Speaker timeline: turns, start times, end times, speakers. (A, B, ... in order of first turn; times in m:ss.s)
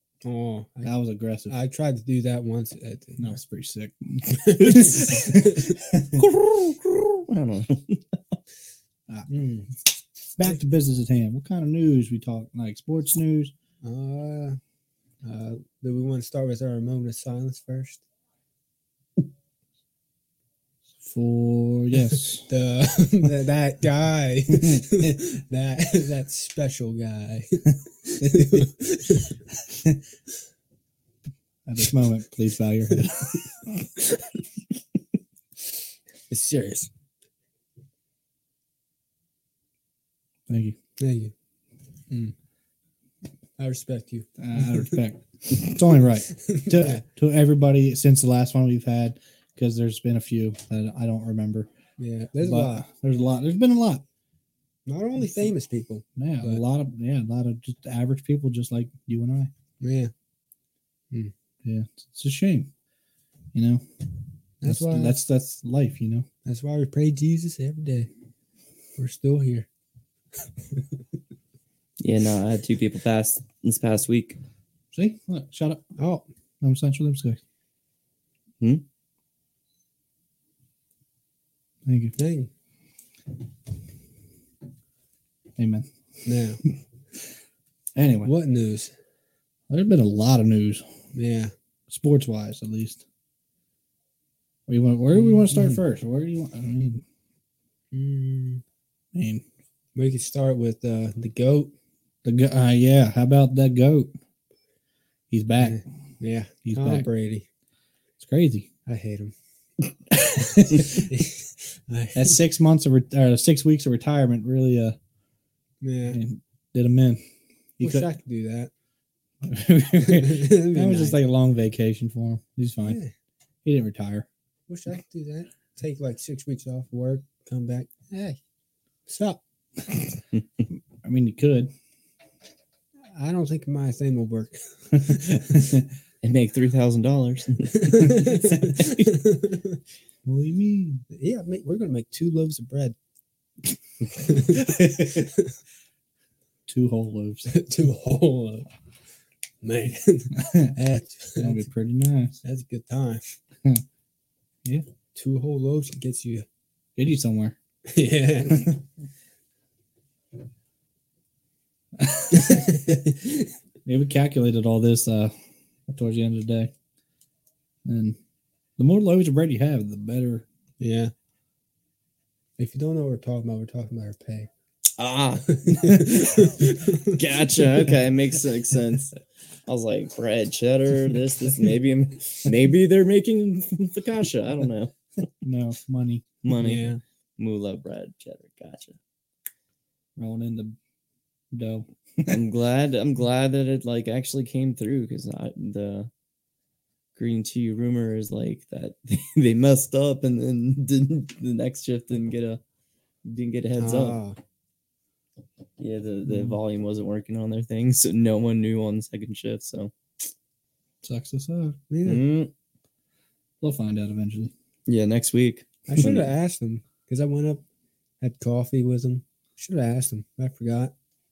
0:00.2-0:00.9 A
0:00.8-0:01.6 B
0:01.5-0:03.4 A
0:03.2-0:06.2 B
0:04.3-0:05.8 A
0:06.1-0:08.2 C
0:09.3-0:09.7 A
0:10.4-0:13.5 B
0:13.8-0:14.6 A
0:15.2-0:18.0 A
0:21.0-0:22.5 B
0:22.0-0:29.4 A
0:24.5-0:25.2 B
0:28.2-0:28.7 B
0:29.7-0:30.0 B
0:31.7-0:33.7 B
0:36.3-0:36.9 A
0:40.5-0:40.8 B
0:41.0-0:41.3 A
0:43.6-0:45.0 A
0:44.4-0:51.7 B
0:46.4-0:47.0 A
0:52.0-0:52.9 A
0:52.4-0:54.0 B
0:54.9-0:56.6 A
0:56.2-0:59.5 B
0:59.8-1:00.1 A
1:01.6-1:02.7 B
1:03.5-1:03.8 B
1:04.6-1:05.2 A
1:04.6-1:06.3 B
1:06.4-1:08.1 A
1:09.0-1:09.7 A
1:12.0-1:14.4 C
1:14.9-1:15.8 B
1:16.0-1:16.2 A
1:16.6-1:17.4 B
1:21.9-1:22.2 B
1:22.2-1:22.5 A
1:25.6-1:25.9 B
1:26.2-1:26.6 A
1:28.0-1:28.3 B
1:28.2-1:28.9 A
1:29.7-1:30.9 B
1:31.1-1:31.5 A
1:31.9-1:33.0 B
1:34.7-1:37.0 B
1:35.1-1:35.8 A
1:37.9-1:38.6 A
1:39.2-1:39.4 B
1:40.0-1:41.7 A
1:42.2-1:44.1 B
1:45.3-1:45.8 B
1:45.6-1:47.5 A
1:46.6-1:47.1 B
1:48.2-1:48.7 B
1:48.9-1:49.3 A
1:50.6-1:51.0 B
1:50.8-1:52.4 A
1:52.2-1:55.0 B
1:55.8-1:56.2 A
1:56.1-1:57.2 B
1:57.8-1:58.1 B
1:57.8-1:58.7 A
1:59.4-2:03.0 B
2:00.0-2:01.2 A
2:02.8-2:03.1 A
2:03.6-2:04.3 B
2:04.7-2:08.4 A
2:09.1-2:09.4 A
2:11.0-2:11.7 B
2:13.1-2:15.7 A
2:15.1-2:15.8 B
2:16.2-2:19.1 C
2:17.8-2:19.8 A
2:20.2-2:21.0 B
2:21.1-2:23.0 A
2:24.2-2:25.3 A
2:24.5-2:25.2 B
2:26.7-2:27.5 B
2:27.5-2:28.7 A
2:29.6-2:31.6 A
2:30.4-2:30.7 B
2:31.4-2:32.4 B
2:32.4-2:33.4 A
2:35.2-2:36.5 A
2:37.0-2:37.6 B
2:37.9-2:38.8 A
2:42.0-2:43.1 B
2:42.3-2:43.4 A
2:43.8-2:45.3 B
2:45.9-2:46.7 B
2:47.8-2:48.2 B
2:48.8-2:50.4 B
2:50.8-2:51.1 A
2:52.6-2:54.5 A
2:55.0-2:56.2 C
2:55.5-2:57.2 A
2:57.0-2:59.2 C
2:59.7-3:04.9 C
3:05.4-3:06.4 B
3:06.4-3:09.0 C
3:06.5-3:07.0 A
3:10.2-3:10.8 B
3:11.5-3:12.4 B
3:12.3-3:16.1 C
3:17.2-3:22.6 C
3:23.2-3:24.2 C
3:23.8-3:24.4 A
3:25.8-3:29.9 C
3:31.0-3:31.8 B
3:31.9-3:32.2 A
3:32.0-3:32.5 C
3:33.6-3:34.5 B
3:34.9-3:36.3 C
3:35.9-3:37.6 A
3:38.2-3:40.9 A